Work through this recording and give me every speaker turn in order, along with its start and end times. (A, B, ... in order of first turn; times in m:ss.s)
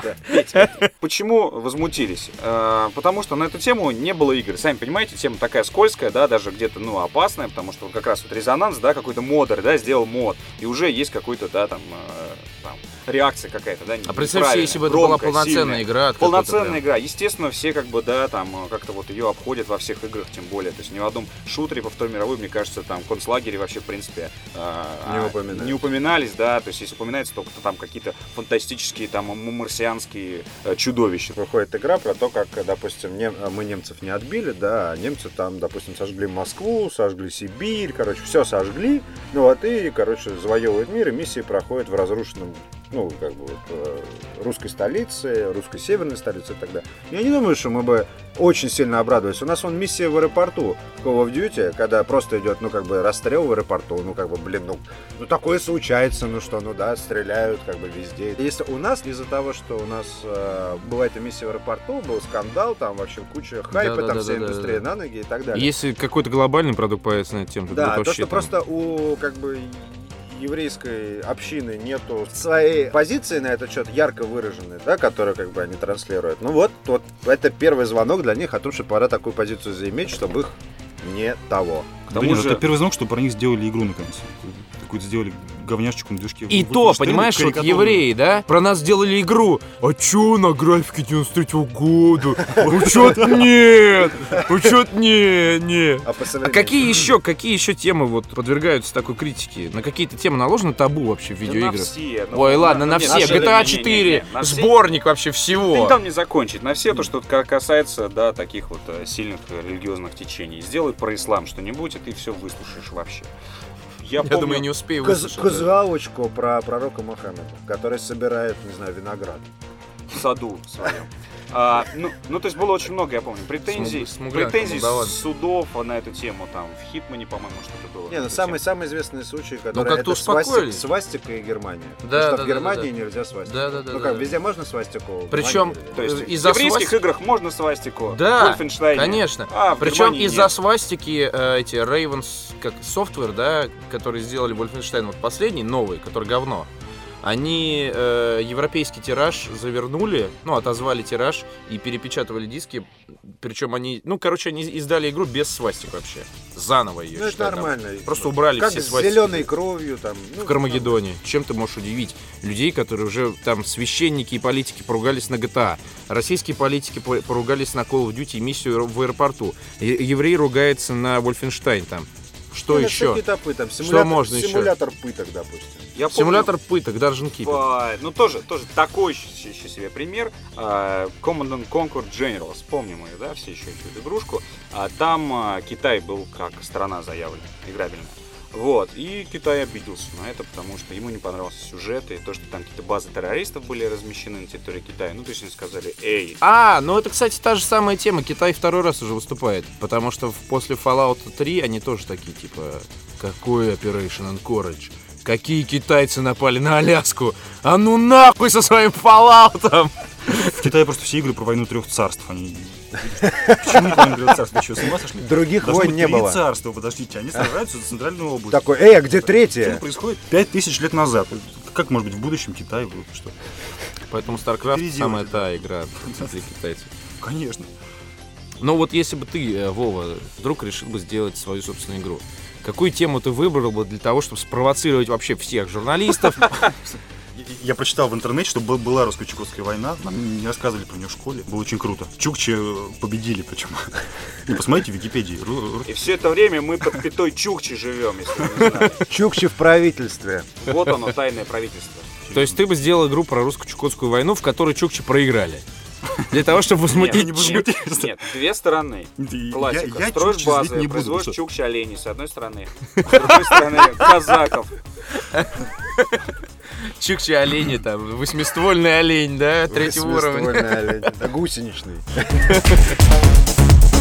0:00.2-0:31.4 A
0:00.3-0:00.9 B
0:14.1-0:16.8 B
0:25.0-0:25.8 C
0:31.3-1:05.7 C
1:03.7-1:04.8 B
1:05.5-1:08.5 B
1:07.7-1:22.0 C
1:22.1-1:28.1 D
1:22.1-1:22.6 A
1:26.5-1:46.0 B
1:32.5-1:33.7 D
1:36.0-1:37.1 C
1:41.4-1:44.8 A
1:43.0-1:43.8 C
1:45.5-1:53.3 A
1:54.0-1:54.7 A
1:54.2-1:55.7 B
1:55.0-1:59.5 C
2:00.1-2:08.6 A
2:03.7-2:05.2 B
2:08.1-2:16.1 C
2:09.7-2:10.9 B
2:12.0-2:12.9 B
2:13.4-2:14.3 B
2:15.3-2:17.0 B
2:15.9-2:20.5 A
2:18.1-2:26.7 B
2:27.2-2:39.5 B
2:37.1-2:41.0 C
2:40.4-2:53.2 B
2:52.7-2:55.9 C
2:53.8-2:54.7 B
2:55.9-2:56.5 A
2:56.1-2:57.6 B
2:57.4-3:16.4 A
3:16.4-3:30.6 B
3:30.5-3:43.4 D
3:33.2-3:34.2 C
3:35.2-3:36.4 C
3:38.5-3:39.8 C
3:44.1-3:46.9 B
3:44.3-3:46.3 D
3:47.2-3:47.7 D
3:48.6-3:56.7 B
3:56.5-4:05.9 D
4:05.8-4:09.0 A
4:08.5-4:08.9 D
4:09.0-4:10.5 C
4:10.6-4:12.1 A
4:12.2-4:12.6 D
4:12.3-4:15.6 B
4:16.3-4:17.7 B
4:16.3-4:18.2 D
4:16.9-4:24.7 A
4:19.2-4:21.4 D
4:23.0-4:23.6 B
4:25.2-4:26.2 B
4:26.8-4:31.1 B
4:29.7-4:32.6 C
4:32.5-4:32.8 B